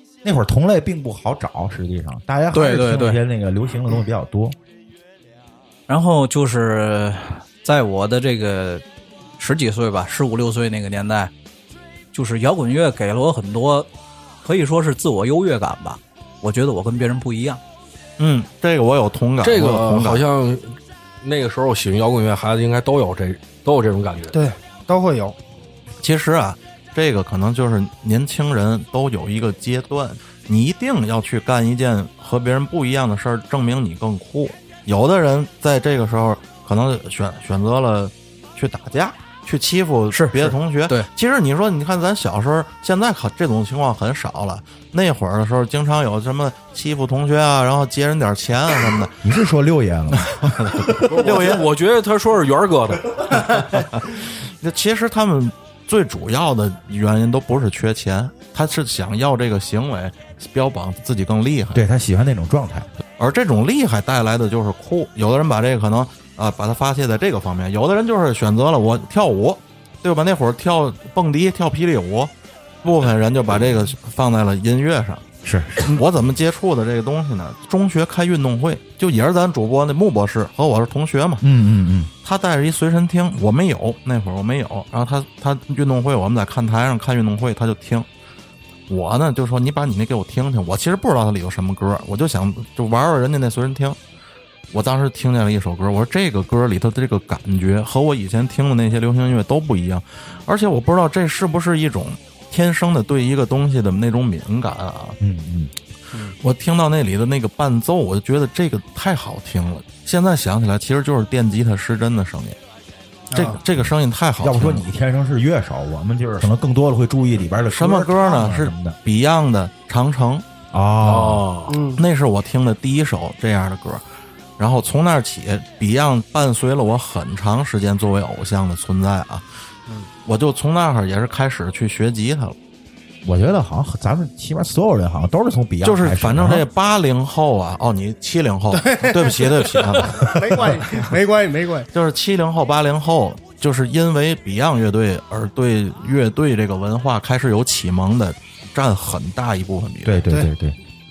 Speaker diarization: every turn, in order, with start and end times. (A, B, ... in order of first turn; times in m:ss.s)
0:00.2-0:04.6 A
0:02.5-0:03.2 B
0:05.9-0:08.8 B
0:09.4-0:11.3 B
0:12.1-0:13.9 B
0:14.4-0:17.6 B
0:18.2-0:20.3 C
0:19.4-0:24.4 D
0:24.3-0:25.4 E
0:26.0-0:49.2 C
0:40.1-0:41.1 B
0:49.2-0:50.9 A
0:50.1-0:51.6 C
0:50.9-0:53.5 D
0:53.4-1:01.8 C
1:01.7-1:02.9 A
1:03.2-1:12.3 C
1:12.8-1:15.2 C
1:15.4-1:16.0 A
1:15.8-1:21.4 C
1:21.4-1:22.1 A
1:22.2-1:28.1 C
1:28.9-1:34.0 C
1:34.7-1:45.2 C
1:45.2-1:45.7 A
1:46.4-1:52.6 C
1:53.3-1:53.6 E
1:53.3-1:54.8 C
1:54.4-1:59.0 A
1:57.7-2:00.4 C
2:00.7-2:01.4 A
2:01.0-2:01.8 D
2:01.7-2:02.0 E
2:02.0-2:04.0 C
2:04.6-2:09.4 C
2:10.3-2:12.6 C
2:13.2-2:16.6 A
2:15.8-2:20.4 C
2:18.7-2:21.9 E
2:21.9-2:30.2 C
2:30.0-2:30.8 A